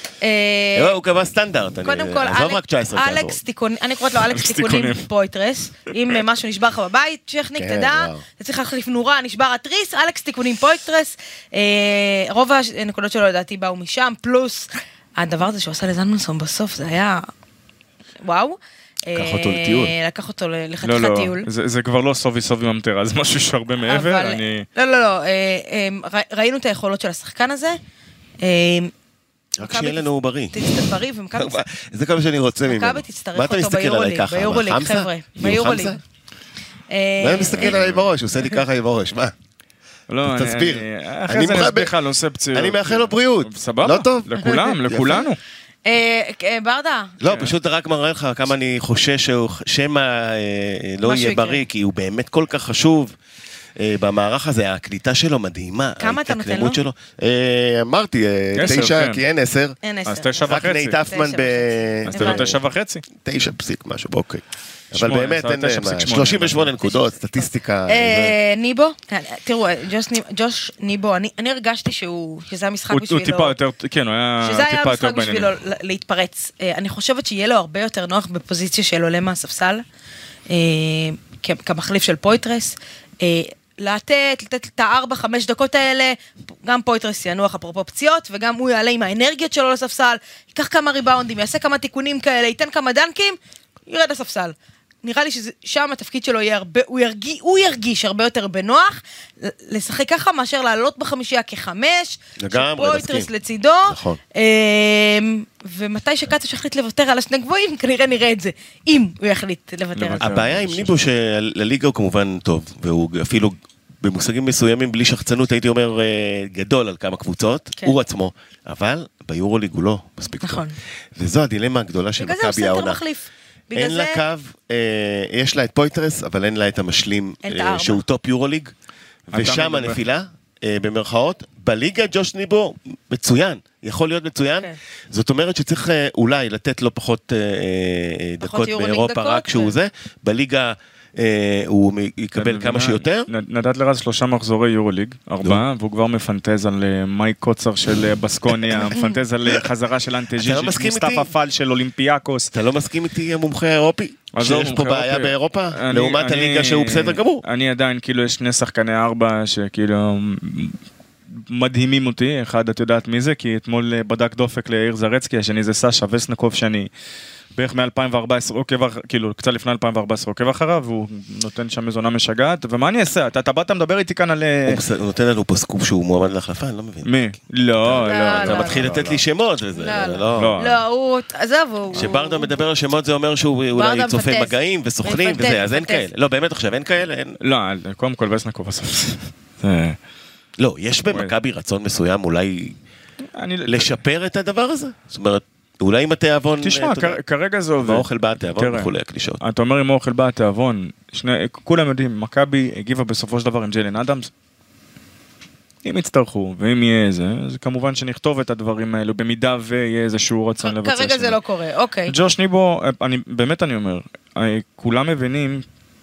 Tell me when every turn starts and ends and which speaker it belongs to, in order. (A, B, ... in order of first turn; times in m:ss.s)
0:00.2-0:01.0 A
0:00.7-0:03.4 B
0:01.8-0:17.2 A
0:04.2-0:05.0 C
0:07.6-0:08.2 B
0:18.2-0:21.5 A
0:19.1-0:19.9 B
0:20.8-0:24.7 C
0:23.8-0:27.8 A
0:28.4-0:28.9 A
0:29.6-0:36.0 B
0:29.6-0:31.6 A
0:32.7-0:36.0 A
0:36.9-0:37.8 A
0:37.2-0:39.3 B
0:37.6-0:38.0 C
0:40.1-0:45.4 C
0:40.2-0:41.9 B
0:42.5-0:45.2 B
0:45.8-0:47.2 A
0:47.2-0:53.2 B
0:47.2-0:47.5 C
0:51.0-0:51.6 A
0:53.8-0:59.8 B
0:56.0-0:56.8 A
0:58.5-0:59.2 C
0:59.8-1:02.5 A
1:00.0-1:01.0 C
1:00.4-1:02.6 B
1:02.1-1:03.0 C
1:03.2-1:08.4 B
1:04.9-1:06.7 C
1:07.9-1:13.5 A
1:12.9-1:15.5 C
1:14.4-1:19.8 A
1:20.5-1:50.3 A
1:42.4-1:43.3 B
1:43.9-1:44.2 B
1:50.0-1:50.9 C
1:50.2-2:03.0 B
2:00.4-2:00.8 A
2:02.2-2:04.2 A
2:03.7-2:08.7 B
2:07.4-2:08.0 A
2:09.3-2:23.3 B
2:09.3-2:10.0 C
2:18.4-2:19.7 A
2:22.4-2:32.5 C
2:28.5-2:28.9 B
2:30.4-2:31.3 B
2:32.5-2:37.4 B
2:34.3-2:40.8 C
2:41.4-2:46.9 C
2:47.5-2:54.8 C
2:54.6-2:57.1 B
2:57.0-2:59.2 C
2:57.8-3:00.6 B
2:57.9-2:58.8 A
2:59.7-3:02.6 A
3:00.3-3:00.8 C
3:01.9-3:07.4 B
3:03.7-3:06.0 A
3:07.4-3:10.0 C
3:10.6-3:12.8 B
3:13.3-3:13.9 C
3:13.6-3:17.2 B
3:16.6-3:24.3 C
3:17.8-3:19.4 B
3:25.8-3:31.4 C
3:30.6-3:32.1 A
3:32.1-3:35.6 C